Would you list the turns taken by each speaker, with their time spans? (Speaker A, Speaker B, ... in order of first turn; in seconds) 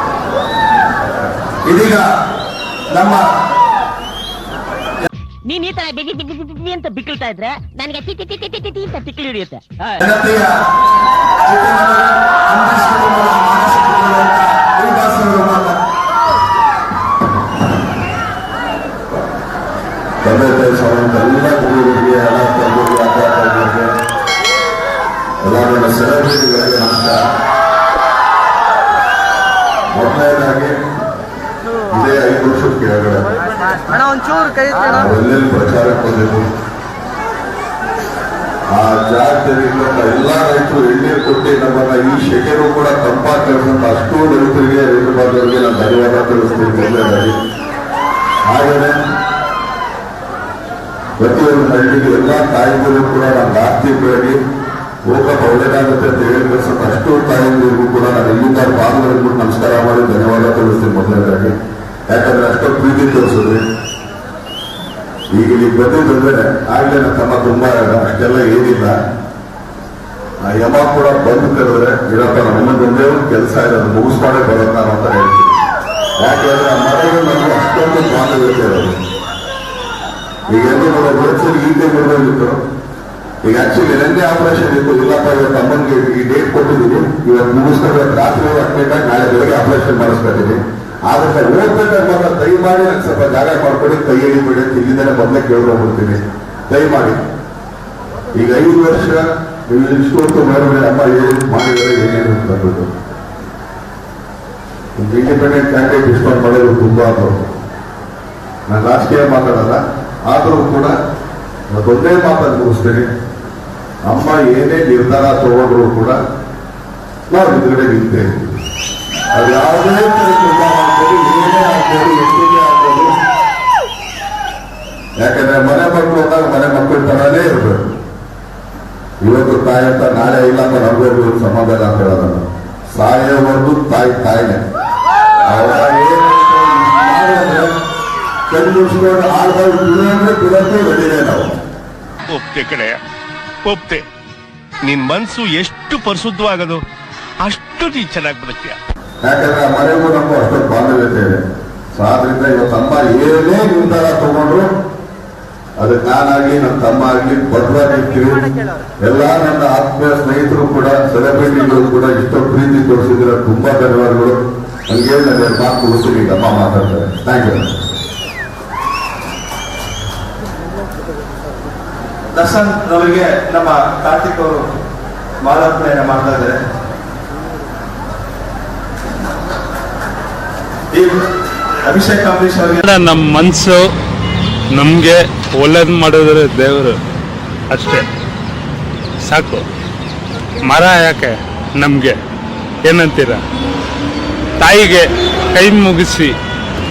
Speaker A: 1.6-2.0, 2.9-3.2, 10.0-10.5, 11.4-15.8, 172.3-174.7, 175.4-176.6, 181.8-182.8
Speaker B: 5.5-9.6
Speaker C: 20.2-23.9, 25.4-27.3, 29.9-30.7, 31.9-33.3, 34.8-36.5, 38.7-47.3, 48.5-49.0, 51.2-54.4, 55.0-61.5, 62.1-63.6, 65.3-69.0, 70.4-75.6, 76.2-79.0, 80.5-82.6, 83.4-97.2, 98.3-102.9, 105.0-107.5, 108.7-110.9, 111.7-113.1, 114.0-116.2, 117.3-118.4, 119.3-123.1, 125.2-127.8, 129.2-134.6, 135.5-137.7, 138.5-141.6, 149.2-151.4, 151.9-154.7, 155.8-158.5, 159.0-164.4, 164.9-167.7
Speaker D: 142.3-143.0, 143.7-144.0, 144.8-146.8, 147.4-148.8
Speaker E: 182.8-183.8, 184.7-187.0, 187.7-188.1, 189.3-189.6, 190.7-192.2, 192.9-193.4, 194.6-196.3